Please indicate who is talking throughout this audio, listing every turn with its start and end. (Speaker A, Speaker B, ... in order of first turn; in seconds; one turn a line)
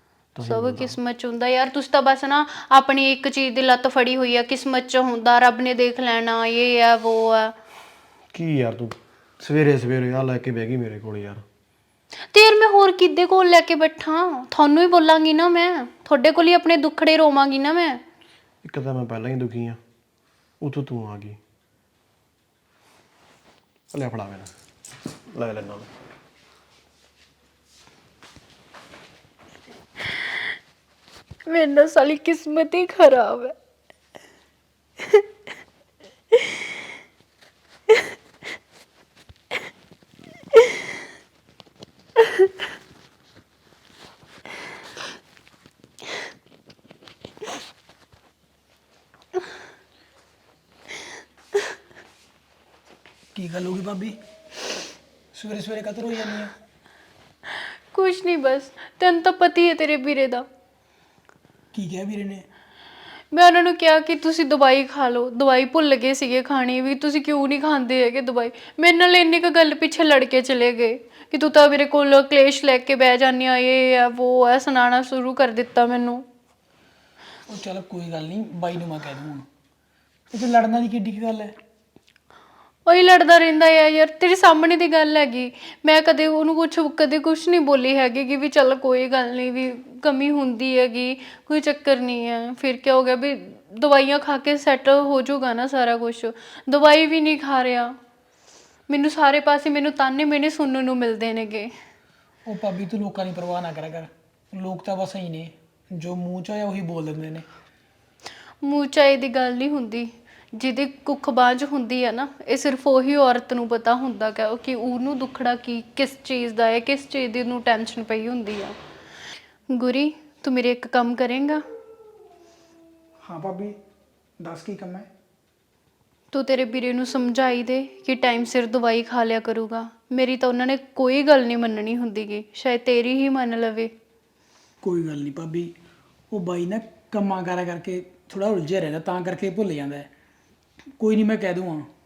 Speaker A: 0.3-1.0
Speaker B: 0.4-7.5
Speaker A: 8.3-11.4
Speaker B: 12.3-18.0
Speaker A: 18.6-19.8
Speaker A: 20.6-21.4
Speaker A: 23.9-24.5
Speaker A: 25.3-25.9
Speaker B: 31.5-33.5
Speaker C: 53.3-54.1
Speaker C: 55.3-56.5
Speaker B: 57.9-60.5
Speaker C: 61.7-62.4
Speaker B: 63.3-76.2
Speaker C: 77.5-79.4
Speaker C: 80.3-81.5
Speaker B: 82.8-97.9
Speaker B: 98.9-101.7
Speaker C: 102.5-107.4
Speaker B: 108.6-118.8
Speaker B: 119.7-121.6
Speaker C: 123.2-123.8
Speaker C: 124.4-125.1
Speaker B: 126.3-133.9
Speaker C: 134.8-135.7
Speaker C: 136.3-140.1
Speaker C: 141.0-141.9